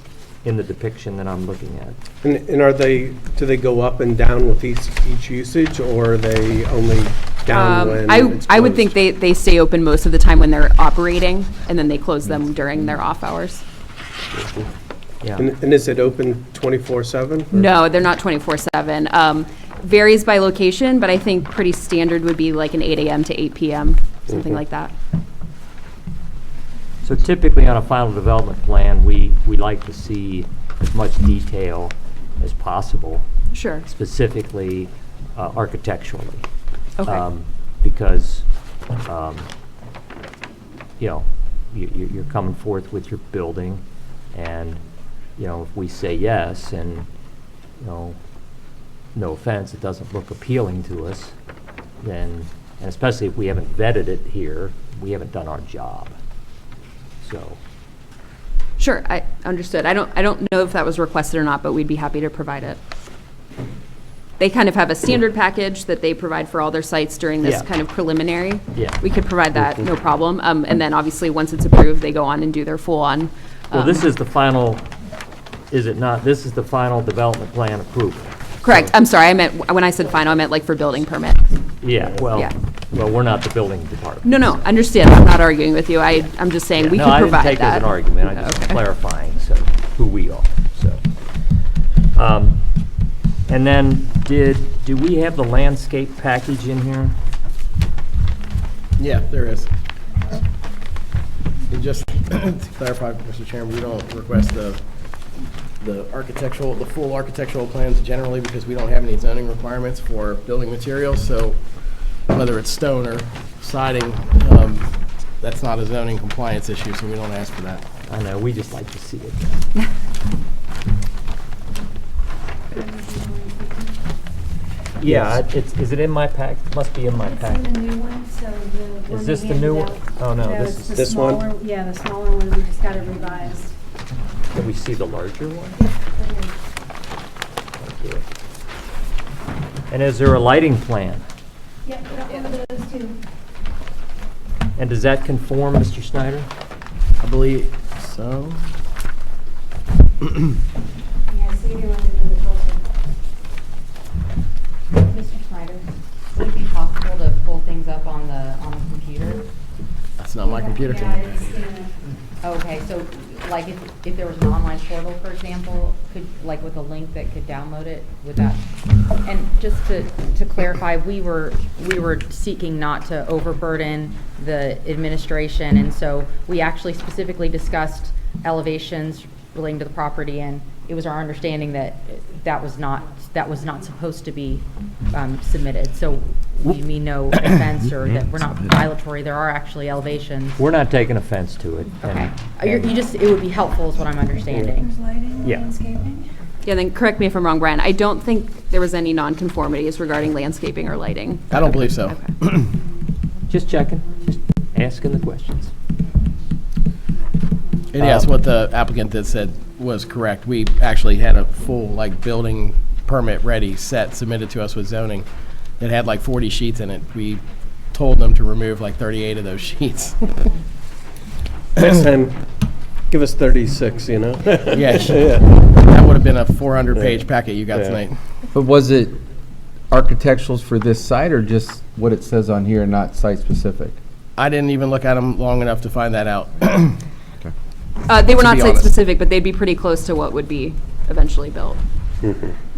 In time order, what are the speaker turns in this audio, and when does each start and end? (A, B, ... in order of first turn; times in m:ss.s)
0:00.4-0:02.0 A
0:02.2-0:08.9 B
0:07.5-0:13.6 C
0:14.4-0:14.7 B
0:15.2-0:15.5 A
0:15.4-0:17.7 B
0:17.5-0:24.9 C
0:27.0-0:33.3 A
0:33.5-0:33.9 C
0:33.8-0:36.4 A
0:37.0-0:37.2 C
0:37.0-0:38.5 A
0:39.0-0:39.5 A
0:41.0-0:44.8 A
0:45.4-0:47.1 A
0:47.8-0:48.2 A
0:49.2-0:51.3 A
0:52.0-0:56.1 A
0:57.2-0:57.6 A
0:58.8-1:02.8 C
1:04.4-1:14.0 C
1:07.4-1:07.7 A
1:08.7-1:09.0 A
1:13.7-1:14.9 A
1:15.7-1:18.9 A
1:18.6-1:21.7 C
1:21.8-1:24.5 A
1:22.2-1:22.5 C
1:24.2-1:28.8 C
1:26.7-1:31.0 A
1:32.2-1:32.6 A
1:33.5-1:37.2 A
1:39.0-1:39.7 D
1:41.7-1:44.8 D
1:45.8-1:51.6 D
1:52.3-1:57.8 D
1:58.1-1:59.7 A
2:02.7-2:04.0 E
2:05.0-2:07.7 A
2:05.1-2:05.4 B
2:07.3-2:13.7 E
2:09.1-2:11.0 A
2:10.9-2:11.5 B
2:14.5-2:15.8 A
2:15.8-2:16.5 E
2:17.8-2:18.2 A
2:19.9-2:21.2 A
2:21.9-2:23.2 E
2:24.8-2:26.5 A
2:27.2-2:28.6 D
2:31.3-2:32.8 E
2:35.0-2:39.5 F
2:40.2-2:41.5 D
2:41.2-2:41.9 E
2:42.4-3:10.6 F
3:10.6-3:13.0 A
3:12.0-3:14.9 F
3:14.8-3:16.3 E
3:15.4-3:15.7 A
3:16.6-3:22.3 C
3:21.5-3:22.7 D
3:23.5-3:25.7 A
3:27.9-3:35.3 D
3:28.0-3:28.3 A
3:35.8-3:40.5 D
3:41.8-3:42.4 B
3:43.1-3:45.5 B
3:44.7-3:48.2 D
3:47.7-3:48.0 B
3:48.5-3:49.2 G
3:49.9-3:54.0 G
3:54.4-3:57.0 D
3:58.1-4:01.8 C
3:58.4-3:58.9 D
4:02.2-4:02.6 B